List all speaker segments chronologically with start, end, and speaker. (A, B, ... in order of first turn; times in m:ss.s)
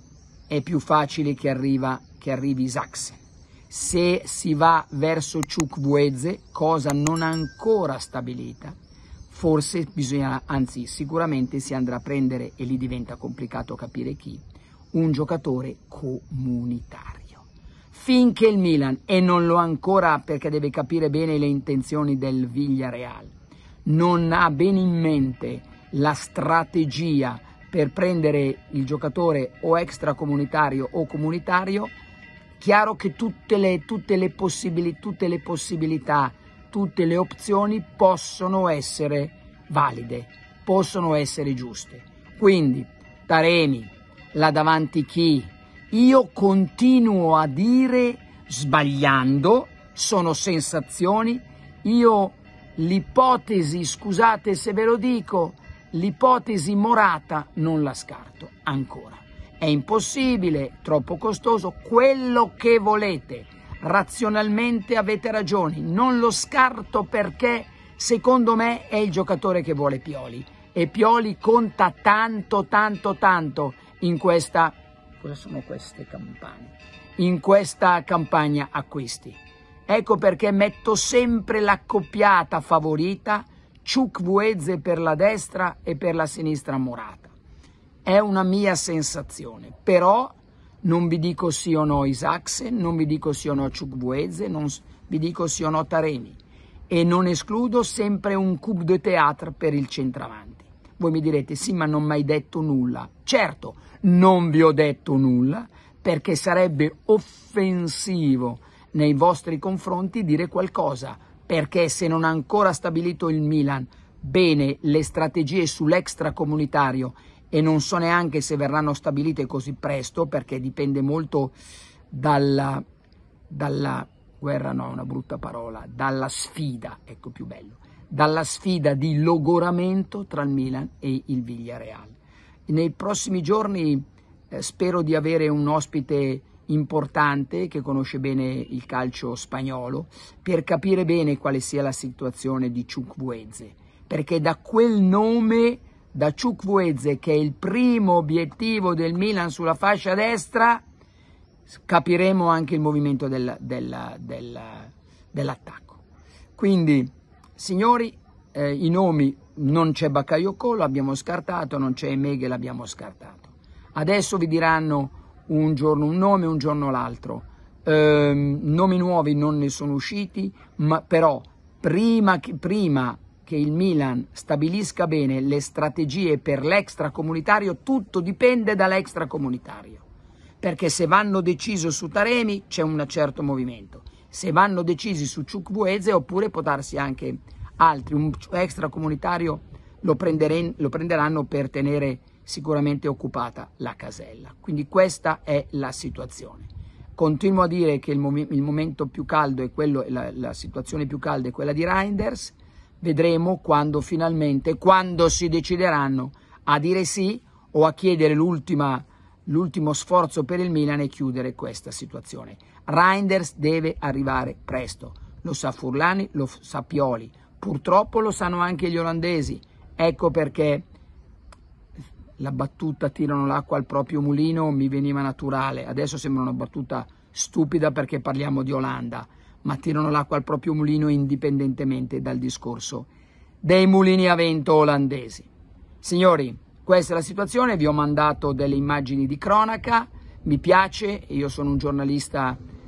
0:00.5-0:08.8 A
0:09.3-0:14.4 A
0:14.9-0:23.3 A
0:23.9-0:31.9 A
0:32.6-1:27.3 A
1:28.0-2:01.5 A
2:02.1-2:02.8 A
2:03.5-2:30.8 A
2:31.7-2:36.0 A
2:36.6-3:00.0 A
3:00.6-3:40.9 A
3:42.4-3:53.1 A
3:53.6-3:55.5 A
3:56.0-4:02.6 A